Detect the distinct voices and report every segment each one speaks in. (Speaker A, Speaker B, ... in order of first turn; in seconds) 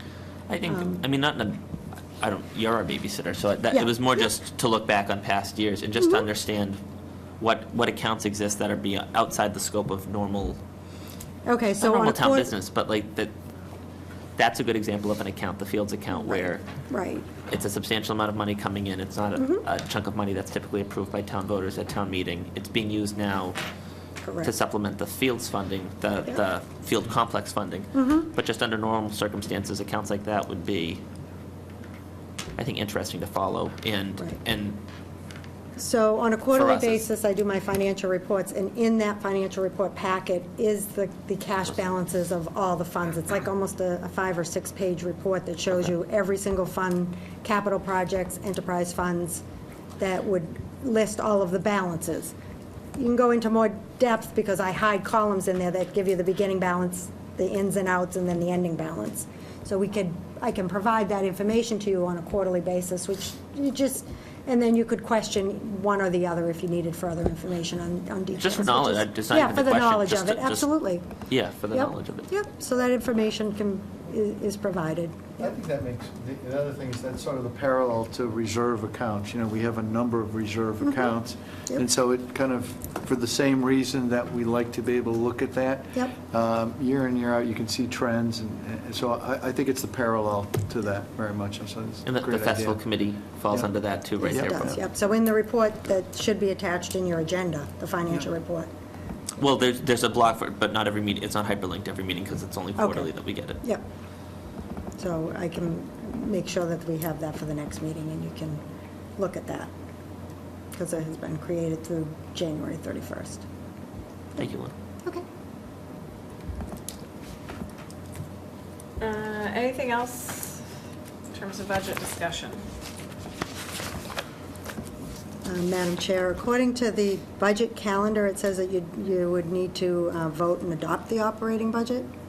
Speaker A: 0.5-1.6, 2.2-6.8, 7.4-10.6, 11.8-13.3, 14.4-16.6, 17.5-23.6, 24.4-31.0, 32.6-34.8, 36.5-37.0, 68.4-70.7, 71.3-72.2, 92.0-94.8, 99.4-103.6, 114.4-114.7
Speaker B: 0.7-1.0, 11.4-12.5, 16.3-17.3, 19.4-19.6, 24.2-24.5, 27.9-28.3, 35.8-49.4, 50.0-52.3, 53.0-71.0, 71.7-75.5, 94.2-98.7, 102.8-103.8, 105.0-108.6, 109.2-109.7, 110.7-113.4, 125.4-132.1
Speaker C: 75.4-92.9, 94.3-94.8
Speaker D: 119.0-120.6, 121.3-122.6